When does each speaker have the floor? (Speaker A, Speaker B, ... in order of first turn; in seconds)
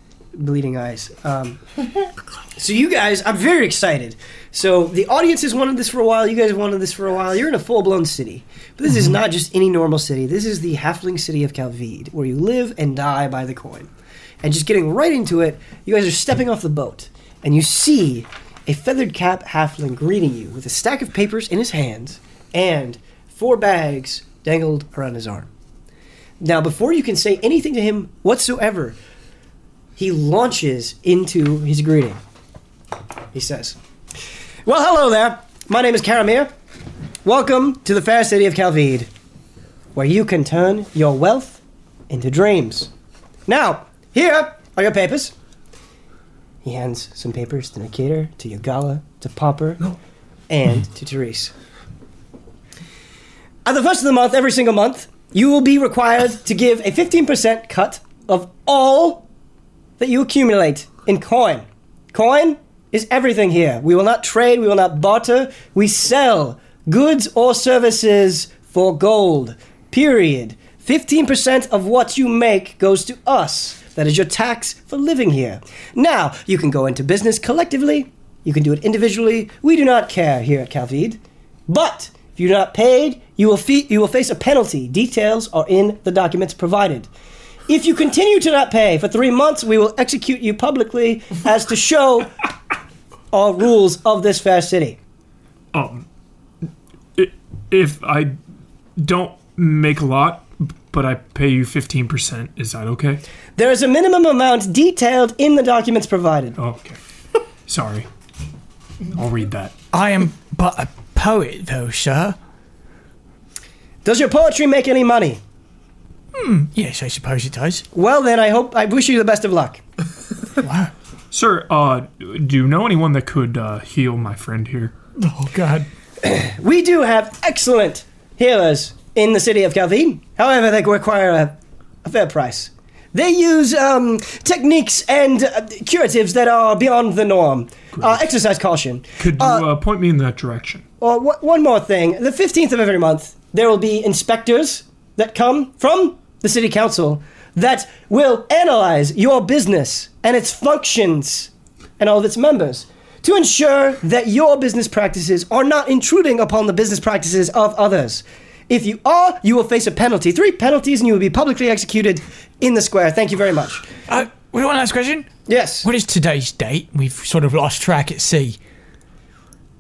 Speaker A: 0.3-1.6, 2.6-13.9, 14.4-25.5, 26.4-29.0, 30.0-32.2, 33.3-33.8, 34.6-36.5, 37.2-39.1, 39.9-42.9, 43.5-45.3, 46.6-50.0, 50.5-51.5, 53.6-59.2, 60.0-87.1, 87.7-92.4, 93.3-95.0, 103.6-106.6, 114.0-115.4, 117.9-119.8, 126.2-139.7, 141.0-163.9, 165.5-165.9
Speaker B: 95.7-96.1, 97.2-98.4, 99.0-103.2, 106.6-107.0, 107.7-108.1, 109.1-109.7, 121.3-124.9, 137.9-138.3, 139.2-140.8
Speaker C: 109.9-112.4, 116.3-117.8, 120.6-120.9, 125.2-125.9, 164.1-168.6